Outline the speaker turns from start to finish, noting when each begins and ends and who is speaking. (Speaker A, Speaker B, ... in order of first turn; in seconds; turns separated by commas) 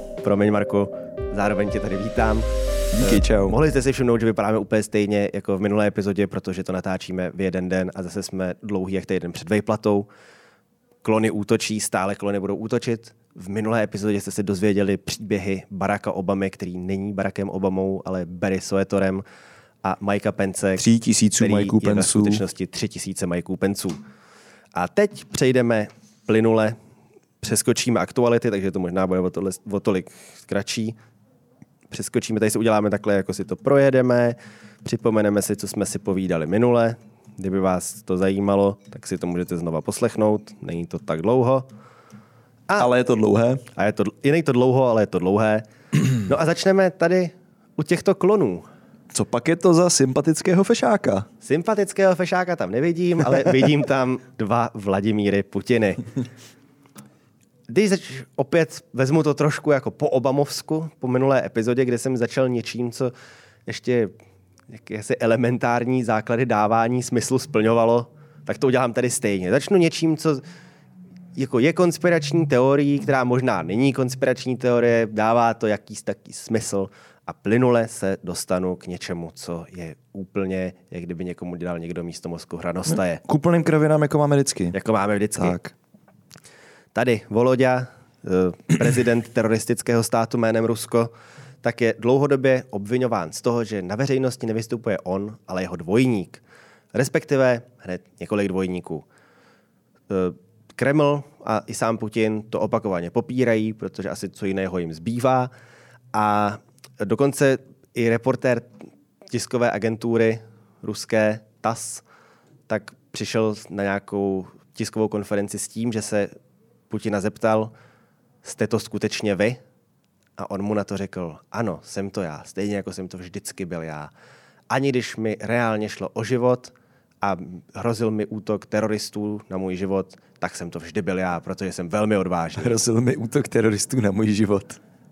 Speaker A: 0.2-2.5, Speaker B: 2.9-3.6, Speaker A: 3.0-10.1, Speaker A: 11.0-19.2, Speaker A: 19.8-20.9, Speaker B: 20.8-22.4, Speaker A: 21.4-24.0, Speaker A: 24.8-26.8, Speaker A: 27.4-31.0, Speaker A: 31.9-41.7, Speaker B: 42.8-43.6, Speaker A: 43.8-45.6, Speaker A: 46.2-48.7, Speaker B: 49.1-51.3, Speaker A: 51.4-56.1, Speaker A: 57.7-63.1, Speaker A: 63.7-64.1, Speaker A: 64.7-70.4, Speaker A: 71.4-83.2, Speaker B: 83.2-84.8, Speaker A: 84.7-85.6, Speaker B: 85.4-85.7, Speaker A: 86.9-91.1, Speaker A: 91.6-96.4, Speaker A: 96.9-99.0, Speaker A: 100.1-105.5, Speaker A: 106.1-108.7, Speaker A: 109.3-112.0, Speaker A: 112.7-116.3, Speaker A: 116.9-117.7, Speaker A: 118.4-119.6, Speaker A: 120.4-124.1, Speaker A: 124.7-132.8, Speaker B: 132.6-134.8